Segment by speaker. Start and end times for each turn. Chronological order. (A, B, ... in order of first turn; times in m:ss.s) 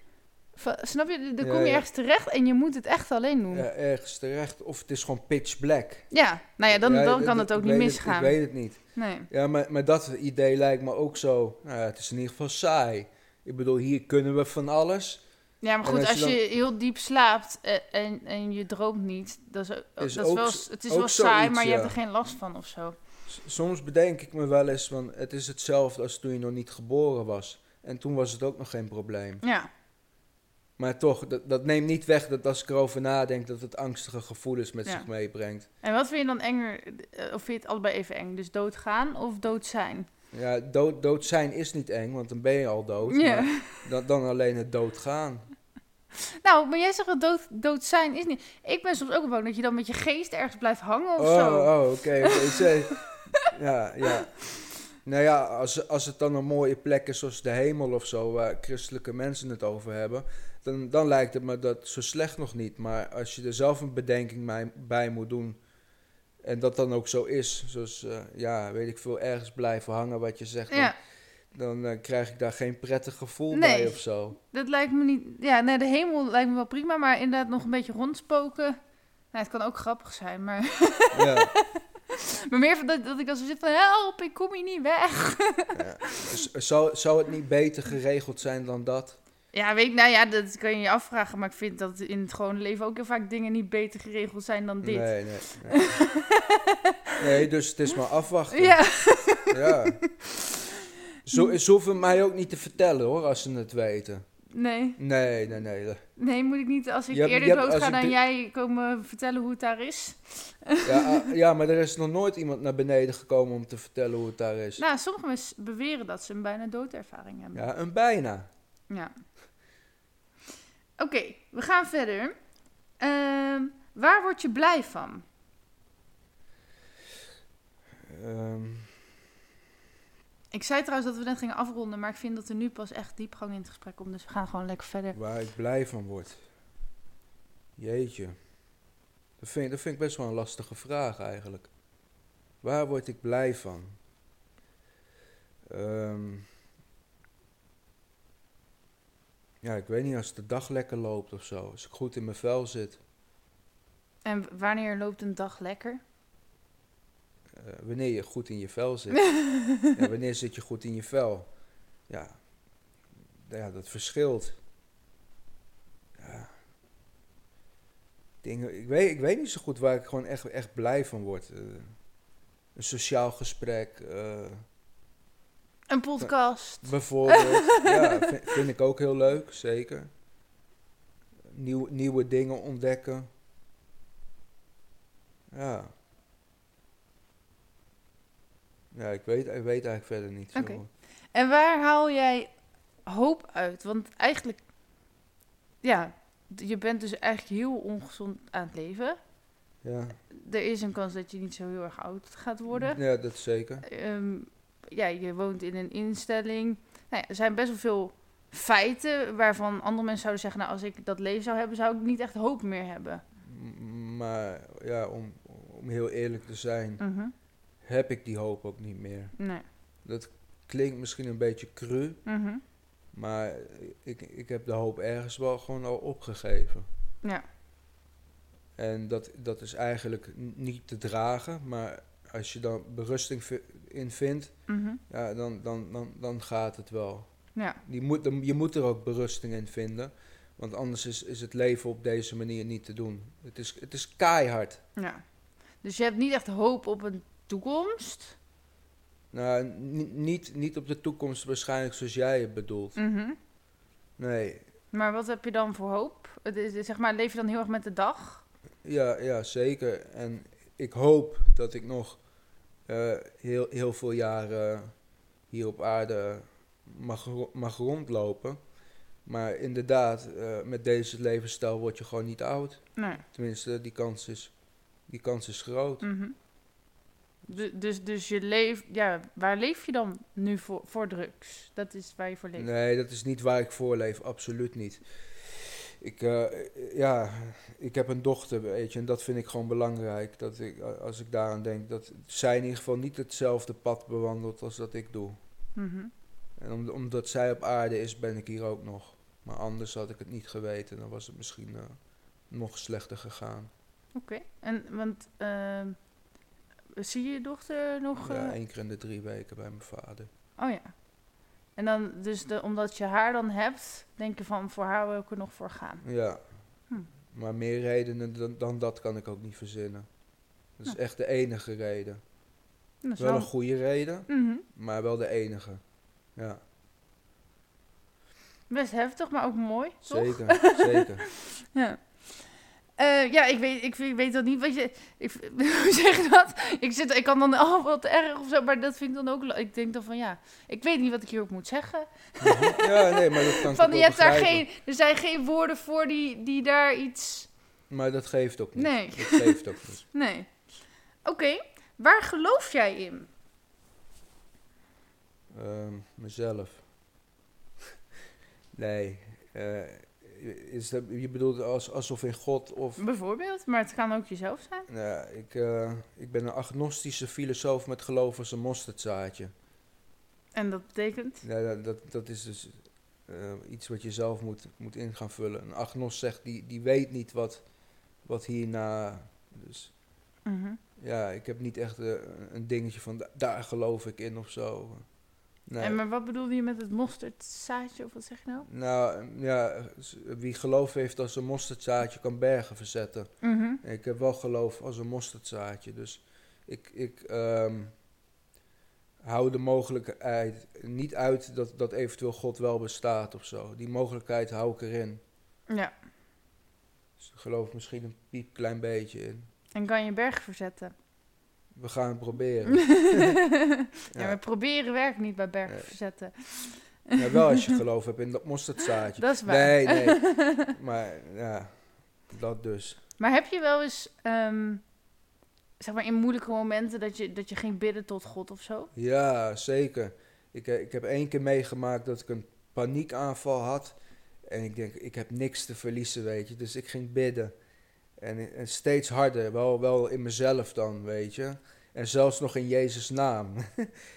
0:00.5-0:03.7 A
0:01.4-0:01.8 B
0:03.5-0:06.1 B
0:06.1-0:09.3 A
0:06.7-0:15.2 B
0:15.6-0:23.0 A
0:15.8-0:16.4 B
0:20.0-0:22.0 B
0:23.2-0:29.4 B
0:29.4-0:29.7 A
0:30.8-0:35.7 B
0:35.8-0:40.1 A
0:40.3-0:45.5 B
0:43.1-0:43.8 A
0:46.4-0:52.7 A
0:51.2-1:05.6 B
1:06.4-1:10.9 B
1:11.5-1:14.4 B
1:13.5-1:18.8 A
1:19.3-1:21.8 A
1:21.1-1:21.5 B
1:22.5-1:26.4 A
1:25.7-1:29.2 B
1:29.5-1:36.8 A
1:34.8-1:36.0 B
1:37.2-1:40.0 B
1:38.5-1:39.8 A
1:41.2-1:44.2 B
1:44.5-1:45.0 A
1:45.0-1:46.0 B
1:46.2-1:51.3 A
1:47.1-1:48.2 B
1:50.8-1:54.8 B
1:54.8-1:57.7 A
1:57.5-1:58.5 B
1:58.9-1:59.2 A
2:01.0-2:02.4 A
2:03.0-2:05.2 A
2:08.1-2:09.0 B
2:10.5-2:15.2 A
2:15.1-2:16.5 B
2:17.8-2:18.4 B
2:19.4-2:21.7 B
2:22.6-2:24.0 B
2:25.7-2:26.5 B
2:29.6-2:33.0 B
2:34.2-2:36.0 A
2:37.5-2:41.5 B
2:39.2-2:39.9 A
2:42.1-2:42.4 B
2:43.4-2:44.6 B
2:46.2-2:46.6 B
2:48.4-2:52.1 B
2:52.7-2:54.6 B
2:55.9-2:58.3 A
2:56.2-3:00.1 B
3:01.5-3:03.3 B
3:05.5-3:05.9 B
3:08.9-3:10.9 B
3:10.5-3:14.6 A
3:15.8-3:19.2 A
3:19.8-3:20.2 B
3:20.3-3:23.0 A
3:22.7-3:23.8 B
3:23.8-3:33.2 A
3:33.4-3:37.0 B
3:37.0-3:37.3 A
3:37.8-3:39.4 B
3:39.4-3:39.6 A
3:40.0-3:42.2 B
3:42.2-3:42.6 A
3:43.1-3:46.9 B
3:48.8-4:04.8 B
3:54.7-3:55.0 A
3:57.5-3:57.8 A
4:05.0-4:05.2 A
4:05.8-4:08.4 A
4:09.3-4:13.0 B
4:13.0-4:13.4 A
4:14.2-4:14.6 B
4:14.9-4:18.4 A
4:18.8-4:22.2 B
4:22.8-4:28.7 B
4:29.2-4:36.1 B
4:33.0-4:33.2 A
4:36.0-4:36.3 A
4:37.5-4:42.7 A
4:42.6-4:55.4 B
4:55.7-4:56.1 A
4:56.6-5:03.7 B
5:04.1-5:06.1 A
5:07.0-5:08.6 A
5:08.2-5:10.3 B
5:10.6-5:11.0 A
5:11.7-5:16.0 A
5:16.0-5:20.1 B
5:20.7-5:22.2 B
5:23.0-5:23.5 A
5:23.2-5:25.8 B
5:24.3-5:24.6 A
5:28.7-5:47.5 A
5:30.0-5:31.2 B
5:42.4-5:44.7 B
5:47.9-5:50.0 B
5:48.8-5:50.7 A
5:51.2-5:53.3 A
5:55.5-5:56.9 B
5:58.7-6:03.0 B
6:03.0-6:04.9 A
6:04.9-6:09.5 B
6:10.5-6:11.4 A
6:11.4-6:17.6 B
6:18.2-6:19.9 B
6:20.4-6:20.8 A
6:21.0-6:25.1 B
6:25.6-6:26.0 B
6:25.8-6:28.7 A
6:28.6-6:37.9 B
6:33.4-6:33.8 A
6:39.2-6:45.2 B
6:47.2-6:49.5 B
6:49.7-6:50.9 A
6:51.7-6:53.4 B
6:52.9-6:57.7 A
6:54.1-6:54.4 B
6:55.6-6:55.9 B
6:57.2-7:03.0 B
6:59.2-7:00.7 A
7:03.2-7:04.8 A
7:05.8-7:08.9 A
7:08.9-7:17.5 B
7:18.2-7:23.9 B